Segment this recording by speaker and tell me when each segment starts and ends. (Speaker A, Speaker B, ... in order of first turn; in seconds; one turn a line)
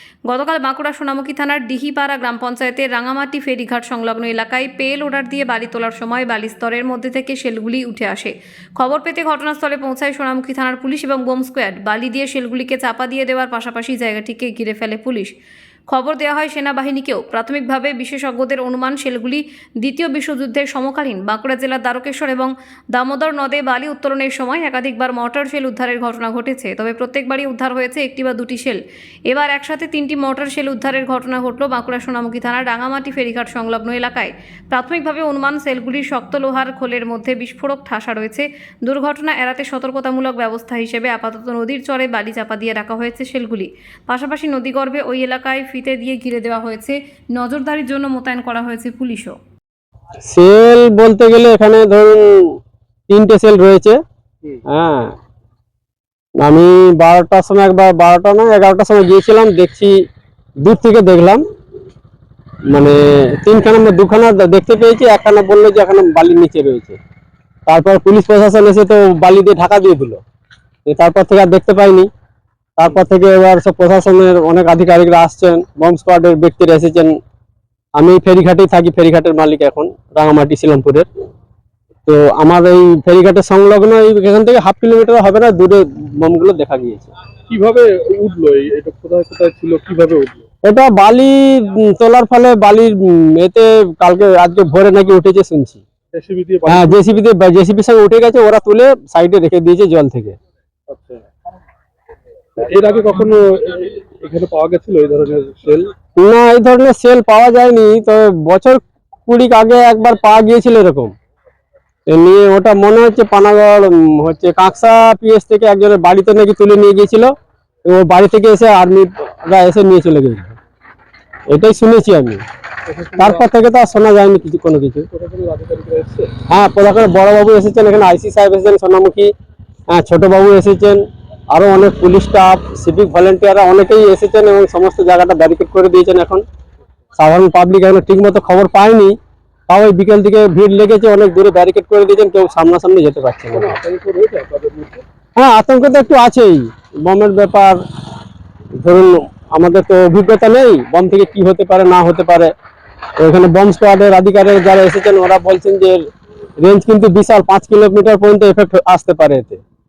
Speaker A: 0.3-15.3
Speaker A: 15.9-49.4
Speaker B: 50.3-54.0
Speaker B: 54.7-55.1
Speaker B: 56.4-60.0
Speaker B: 60.6-61.4
Speaker B: 62.7-67.0
Speaker B: 67.7-70.2
Speaker B: 70.9-72.1
Speaker B: 72.8-77.2
Speaker B: 78.0-81.1
Speaker B: 82.1-87.1
Speaker C: 87.5-90.5
Speaker B: 90.6-95.8
Speaker C: 96.1-97.1
Speaker B: 96.7-100.4
Speaker C: 100.9-101.3
Speaker C: 102.6-105.9
Speaker B: 106.2-111.1
Speaker B: 112.1-117.3
Speaker B: 117.9-120.6
Speaker B: 121.5-122.4
Speaker C: 122.9-123.5
Speaker B: 123.2-125.1
Speaker C: 125.1-126.3
Speaker B: 126.5-129.3
Speaker B: 129.9-136.4
Speaker B: 137.2-139.2
Speaker B: 139.7-143.8
Speaker C: 143.5-145.0
Speaker B: 145.4-147.8
Speaker B: 148.8-152.5
Speaker B: 153.2-156.0
Speaker B: 156.6-159.6